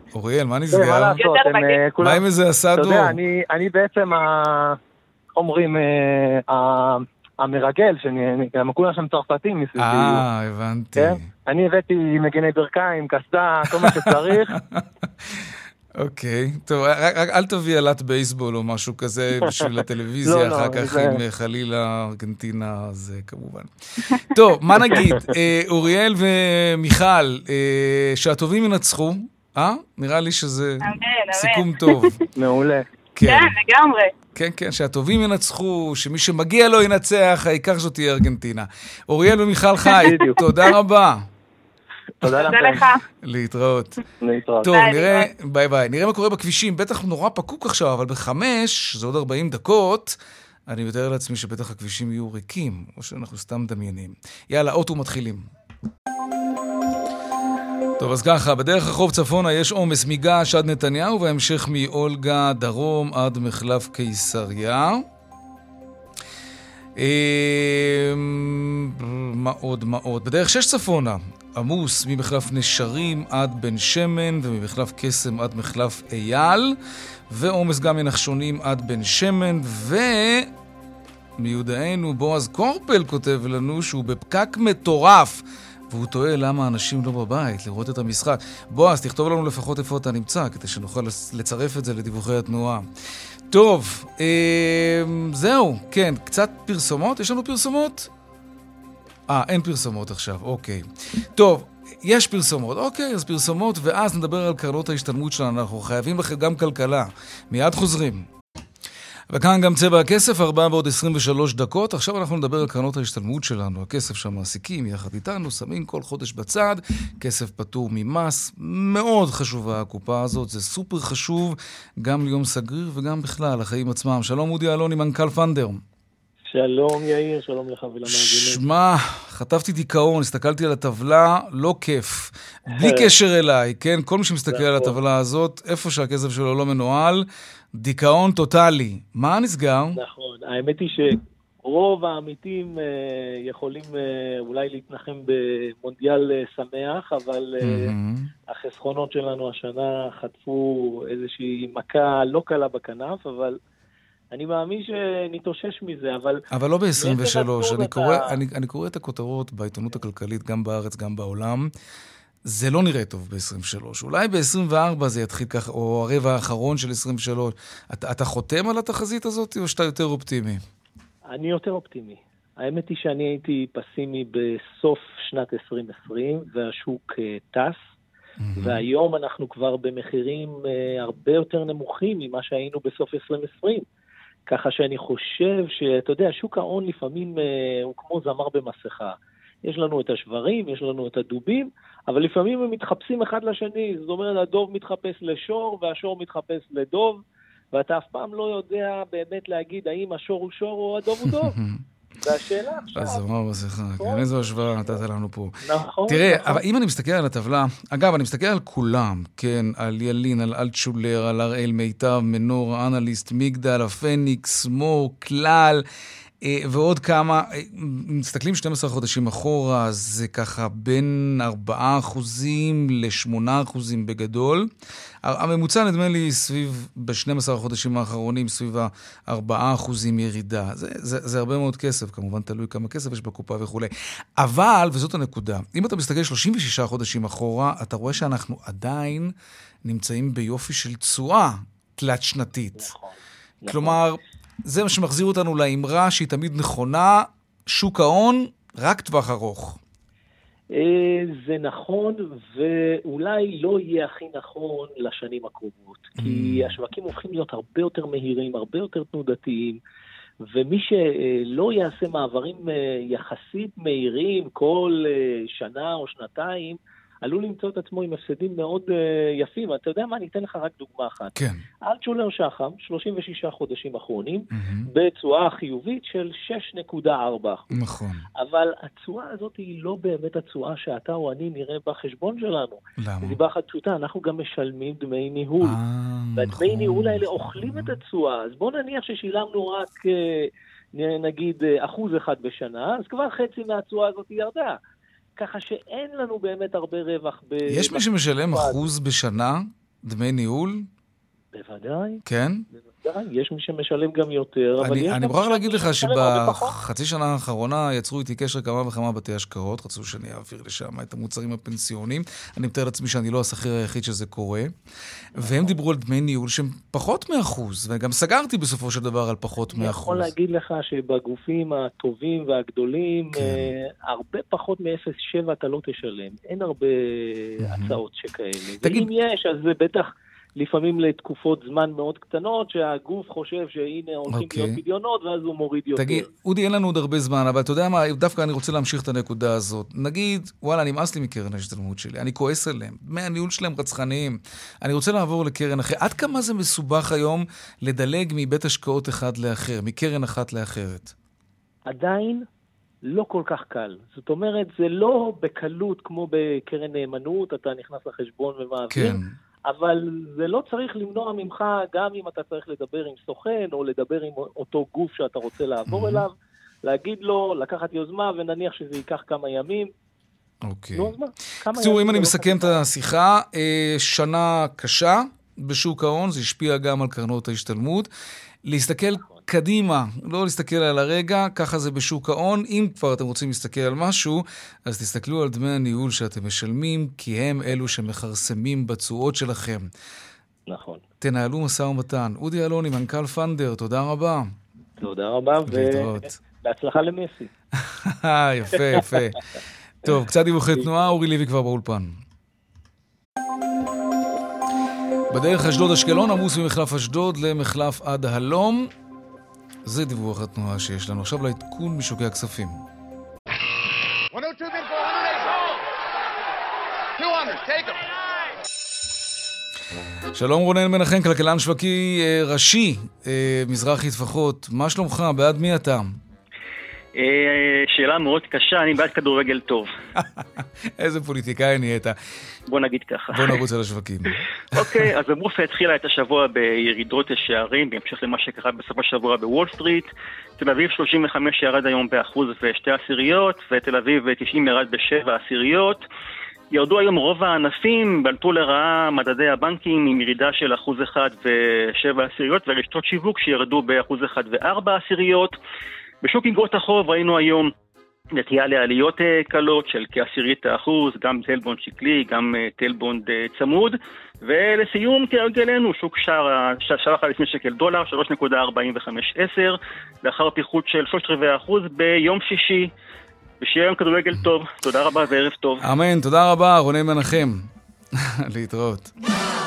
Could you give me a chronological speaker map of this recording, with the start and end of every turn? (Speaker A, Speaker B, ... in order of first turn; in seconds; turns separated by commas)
Speaker A: 0.1-1.2, Speaker B: 0.7-2.2, Speaker C: 1.2-1.8, Speaker A: 2.0-3.2, Speaker B: 2.8-4.8, Speaker B: 5.4-10.2, Speaker A: 9.8-11.3, Speaker B: 11.0-14.5, Speaker A: 13.8-32.2, Speaker B: 20.2-21.2, Speaker B: 24.8-25.1, Speaker C: 30.9-32.1, Speaker B: 32.4-32.9, Speaker A: 33.2-33.6, Speaker C: 33.2-34.1, Speaker A: 34.4-41.3, Speaker B: 40.0-40.4, Speaker B: 42.2-42.8, Speaker C: 42.3-43.0, Speaker A: 43.2-44.0, Speaker B: 44.2-44.7, Speaker A: 44.6-55.5, Speaker C: 44.7-45.3, Speaker A: 58.0-65.0, Speaker A: 67.0-76.8, Speaker A: 77.3-80.5, Speaker A: 81.4-92.9, Speaker A: 93.5-98.1, Speaker A: 99.3-108.3, Speaker A: 109.3-125.8, Speaker D: 126.5-128.6, Speaker A: 128.1-140.0, Speaker D: 132.7-133.1, Speaker D: 134.5-135.0, Speaker D: 139.9-147.9, Speaker A: 147.6-148.3, Speaker D: 148.5-153.6, Speaker D: 154.3-156.4, Speaker A: 156.5-161.7, Speaker D: 157.0-158.4, Speaker A: 162.5-170.6, Speaker D: 171.3-177.8, Speaker A: 178.4-178.8, Speaker D: 178.6-183.8, Speaker D: 184.5-201.6, Speaker A: 201.3-201.8, Speaker D: 202.2-203.2, Speaker A: 202.9-205.6, Speaker D: 204.0-204.3, Speaker D: 205.6-206.6, Speaker A: 206.1-215.8, Speaker A: 216.4-224.7, Speaker A: 225.2-242.9, Speaker D: 242.8-244.0, Speaker A: 243.7-249.8, Speaker D: 250.7-259.8, Speaker A: 256.2-256.8, Speaker D: 260.4-277.7, Speaker A: 271.4-271.6, Speaker A: 274.5-274.9, Speaker A: 277.7-278.3, Speaker D: 278.4-285.8, Speaker A: 283.0-283.4, Speaker A: 285.6-288.0, Speaker D: 286.4-294.8, Speaker D: 295.4-298.8, Speaker A: 297.7-300.9, Speaker D: 301.5-302.2, Speaker A: 302.2-302.7, Speaker D: 302.7-306.8, Speaker A: 304.8-314.7, Speaker A: 315.4-320.3, Speaker D: 315.4-315.7, Speaker D: 319.7-336.3, Speaker A: 323.3-323.7, Speaker A: 327.6-328.0, Speaker A: 328.8-329.1, Speaker A: 334.3-334.8, Speaker A: 336.0-351.1, Speaker D: 351.9-352.4, Speaker D: 353.1-366.3, Speaker A: 358.9-359.3, Speaker A: 365.9-366.2, Speaker D: 366.9-369.9, Speaker A: 370.6-371.1, Speaker D: 370.9-372.8, Speaker A: 371.7-378.1, Speaker A: 378.6-389.9, Speaker D: 390.7-391.0, Speaker A: 391.2-394.5, Speaker D: 395.0-397.5, Speaker A: 395.7-396.4, Speaker A: 397.8-399.4, Speaker D: 398.9-399.2, Speaker A: 400.0-402.2, Speaker A: 405.3-408.9, Speaker A: 409.9-412.8, Speaker E: 414.3-415.6, Speaker E: 417.2-418.0, Speaker A: 420.3-426.1, Speaker F: 427.2-429.9, Speaker A: 430.2-432.2, Speaker F: 432.7-433.6, Speaker A: 433.3-435.0, Speaker F: 434.7-446.0, Speaker F: 446.7-455.6, Speaker F: 456.2-457.7, Speaker F: 458.4-472.9, Speaker F: 473.6-475.9, Speaker A: 475.8-479.1